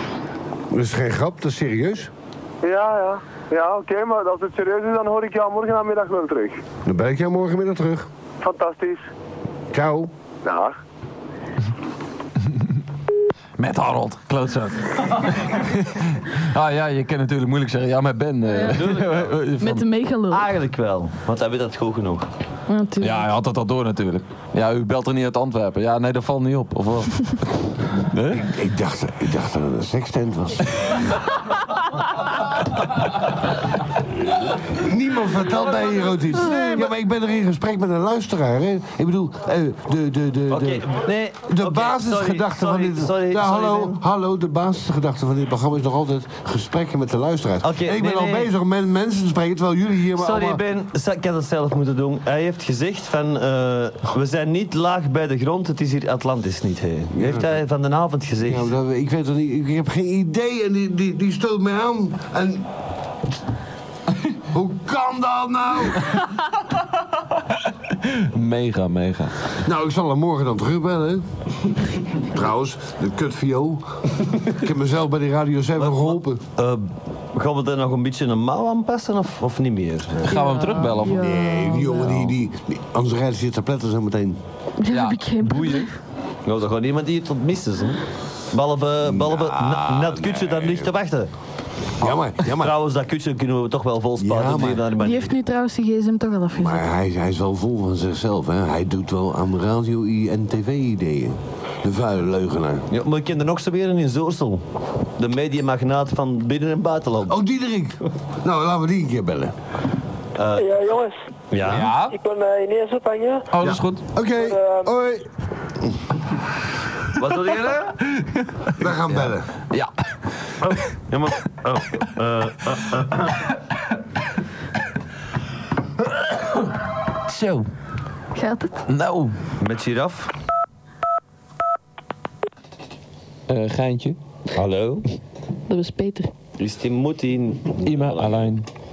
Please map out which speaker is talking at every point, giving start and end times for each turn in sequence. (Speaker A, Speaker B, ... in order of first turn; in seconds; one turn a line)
Speaker A: 0.7-2.1
Speaker B: 2.6-6.6
Speaker A: 6.8-8.1
Speaker B: 8.4-9.0
Speaker A: 9.7-10.1
Speaker B: 10.4-10.8
Speaker C: 13.6-19.9
Speaker D: 18.5-18.8
Speaker E: 18.7-19.4
Speaker D: 19.6-20.5
Speaker E: 20.3-22.2
Speaker D: 22.7-23.3
Speaker C: 23.0-27.4
Speaker C: 27.9-28.5
Speaker A: 28.3-31.1
Speaker A: 34.7-50.6
Speaker E: 36.3-36.9
Speaker E: 40.5-44.0
Speaker E: 47.6-48.5
Speaker E: 50.1-58.7
Speaker A: 57.1-57.6
Speaker A: 58.4-62.7
Speaker A: 64.5-66.2
Speaker C: 68.0-69.3
Speaker A: 69.6-76.4
Speaker E: 75.8-80.3
Speaker C: 80.2-81.4
Speaker D: 80.3-82.3
Speaker A: 81.1-84.4
Speaker D: 84.8-85.9
Speaker C: 84.9-85.9
Speaker E: 86.4-91.3
Speaker A: 89.0-90.9
Speaker A: 92.0-92.7
Speaker E: 92.4-95.3
Speaker A: 94.2-94.9
Speaker D: 95.0-96.9
Speaker A: 96.5-102.8
Speaker E: 102.9-104.6
Speaker E: 105.2-107.4
Speaker A: 107.3-109.5
Speaker E: 110.3-110.7
Speaker F: 110.5-111.2
Speaker E: 111.5-111.9
Speaker C: 111.6-112.2
Speaker F: 112.0-113.5
Speaker C: 113.5-114.0
Speaker A: 113.6-115.3
Speaker F: 114.3-114.9
Speaker E: 117.1-118.0
Speaker C: 118.2-118.5
Speaker A: 118.7-119.5
Speaker E: 120.6-123.4
Speaker C: 127.3-127.7
Speaker D: 128.3-128.7
Speaker C: 128.9-129.3
Speaker E: 129.6-130.3
Speaker C: 133.5-134.2
Speaker E: 134.5-135.0
Speaker D: 135.7-136.3
Speaker E: 136.6-138.5
Speaker C: 137.8-138.7